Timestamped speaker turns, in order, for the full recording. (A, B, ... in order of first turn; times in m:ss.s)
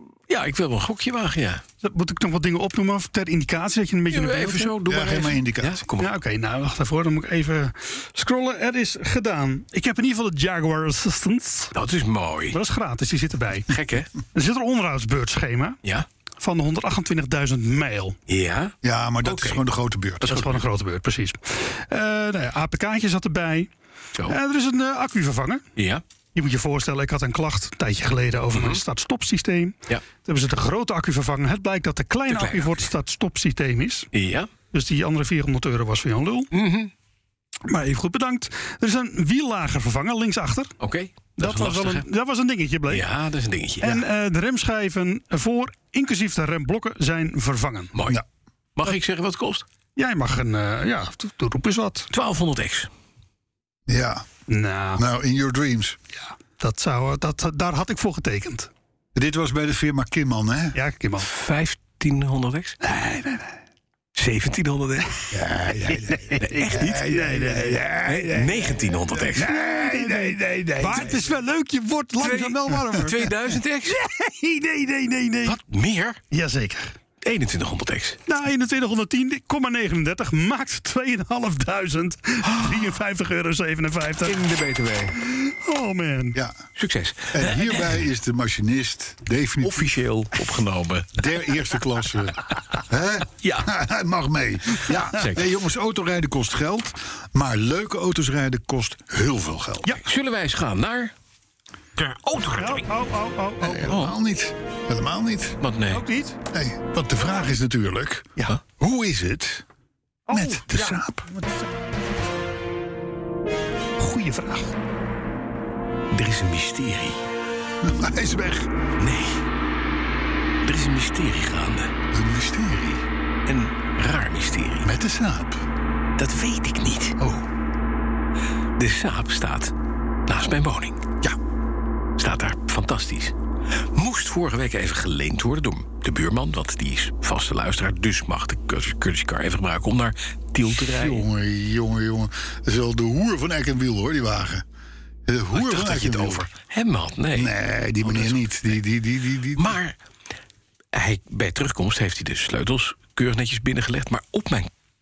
0:00.3-0:01.6 A
0:01.8-0:04.7 B
0:04.1-0:06.2 A
0:04.8-0:05.8 C
0:06.0-0:11.7 B
0:11.7-0:12.6 A
0:12.5-0:13.7 B
0:13.7-0:14.1 A
0:14.3-0:15.8 B
0:16.4-0:18.2 B
0:18.3-0:19.6 A
0:18.8-0:20.3 C
0:20.2-0:20.6 A
0:20.2-0:23.7 B
0:24.2-0:25.6 B
0:25.8-0:26.0 A
0:26.3-0:34.1 B
0:28.5-0:28.8 A
0:32.3-0:32.9 A
0:34.1-0:34.5 A
0:34.7-0:36.5 B
0:36.5-0:36.9 A
0:37.7-0:40.7 B
0:40.8-0:42.0 A
0:41.4-0:43.0 B
0:42.9-0:44.0 A
0:43.8-0:47.9 B
0:47.9-0:48.2 A
0:48.8-0:49.6 A
0:50.0-0:52.1 B
0:52.1-0:52.9 A
0:53.9-0:54.2 C
0:54.5-0:55.0 B
0:54.9-0:56.0 C
0:56.6-0:58.7 B
0:59.1-1:00.8 C
1:00.7-1:01.3 B
1:01.2-1:02.8 A
1:02.8-1:03.5 B
1:04.2-1:05.3 A
1:05.3-1:11.4 C
1:06.2-1:07.8 B
1:06.4-1:07.1 A
1:08.0-1:09.5 A
1:09.4-1:13.3 B
1:12.2-1:14.0 A
1:12.7-1:13.1 C
1:13.9-1:15.6 B
1:15.4-1:16.2 A
1:16.3-1:16.9 B
1:17.2-1:18.2 A
1:18.3-1:24.4 B
1:22.5-1:22.9 A
1:24.2-1:25.2 A
1:25.3-1:26.4 B
1:26.3-1:26.6 C
1:26.8-1:28.1 A
1:27.3-1:29.9 C
1:29.6-1:31.6 A
1:31.1-1:40.0 C
1:33.4-1:33.7 A
1:35.1-1:35.5 A
1:39.9-1:41.1 A
1:42.0-1:42.8 A
1:42.6-1:43.9 B
1:43.6-1:45.6 C
1:43.9-1:44.1 A
1:45.6-1:46.0 A
1:45.9-1:46.4 B
1:46.5-1:49.6 C
1:50.3-1:51.7 B
1:50.3-1:51.2 C
1:54.0-1:54.7 B
1:56.1-1:57.2 A
1:57.8-1:58.7 C
1:59.0-1:59.4 A
2:00.6-2:01.9 A
2:02.1-2:03.0 C
2:03.4-2:04.9 A
2:04.8-2:05.6 C
2:06.2-2:07.2 A
2:07.2-2:07.5 C
2:08.8-2:09.7 A
2:10.3-2:11.0 A
2:12.2-2:13.3 A
2:13.9-2:21.2 A
2:20.7-2:24.6 C
2:25.2-2:26.5 C
2:25.5-2:28.8 A
2:27.3-2:29.8 C
2:29.6-2:29.9 A
2:30.9-2:34.7 A